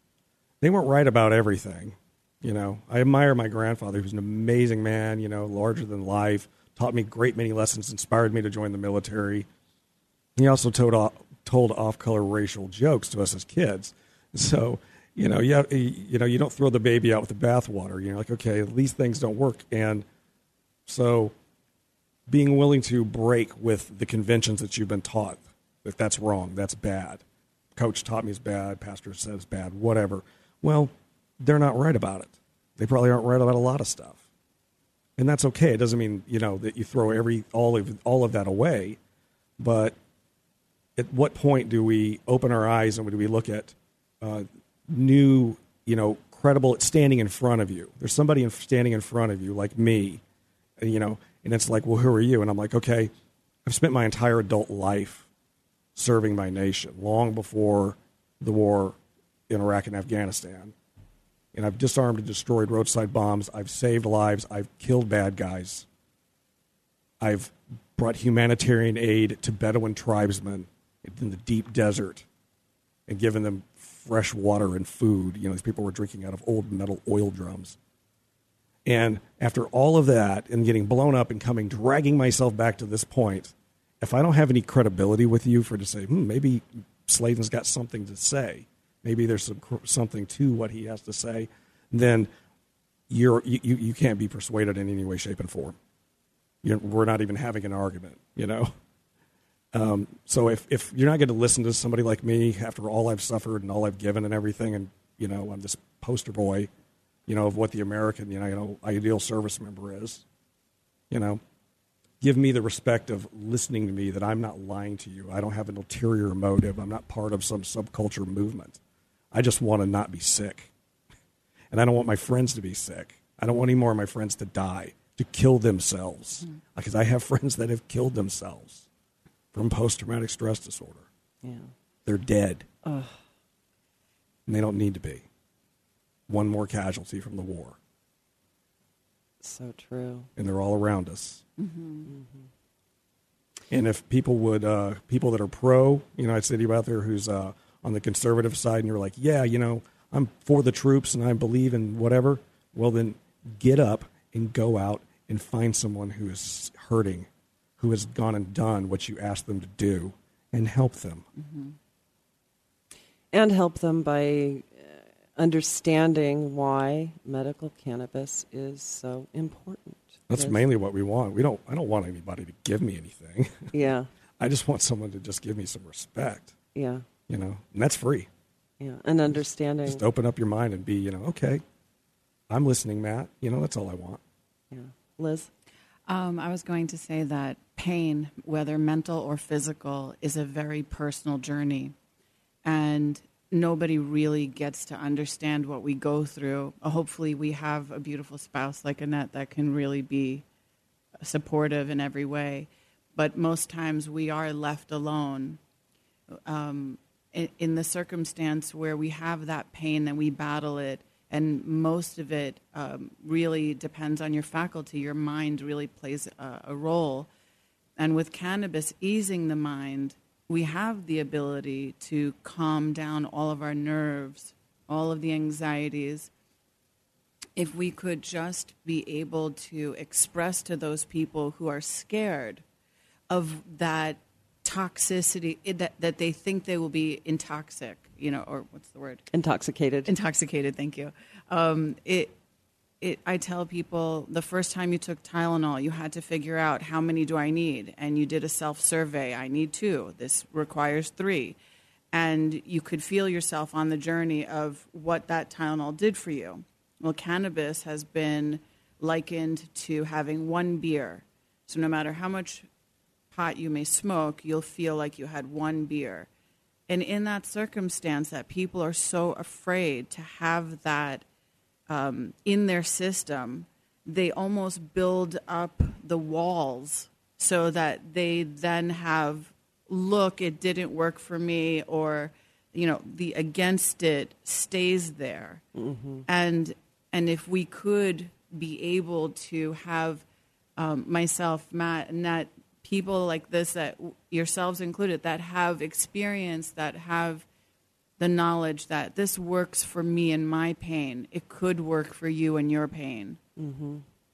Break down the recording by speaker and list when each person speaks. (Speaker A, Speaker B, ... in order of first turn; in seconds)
Speaker A: 0.6-9.5, 10.3-20.0, 20.9-21.3, 22.3-27.2, 27.8-34.2, 35.2-39.0, 39.6-40.0, 41.0-50.2, 50.8-53.1, 53.6-55.3, 55.9-59.0, 59.5-60.7, 61.5-65.8, 67.2-72.2, 73.1-77.8, 78.8-92.3, 93.1-95.8, 96.6-98.7, 99.7-106.7, 107.3-110.2, 111.1-111.4, 112.2-118.8, 119.3-120.7, 121.7-128.9, 129.5-131.1, 132.0-132.7, 134.5-135.2, 136.3-137.8, 140.3-141.4, 143.7-157.3, 157.8-161.2, 170.3-173.7, 174.4-176.5, 177.3-178.3, 179.8-181.6, 182.5-184.2
Speaker B: 131.4-131.7, 132.8-133.2, 139.4-140.3, 142.1-142.5, 163.3-170.6, 173.7-174.1, 176.7-177.1, 178.8-180.0, 184.7-185.5, 239.3-240.1, 285.8-286.2, 303.6-304.0
Speaker C: 141.6-142.1, 161.4-161.8, 186.1-191.9, 192.6-200.4, 201.2-205.6, 206.4-217.3, 218.0-226.3, 227.6-232.6, 233.3-239.2, 240.1-242.3, 243.0-251.6, 252.1-262.7, 263.3-266.3, 266.9-271.2, 271.9-285.6, 286.3-290.2, 290.8-297.4, 298.2-303.4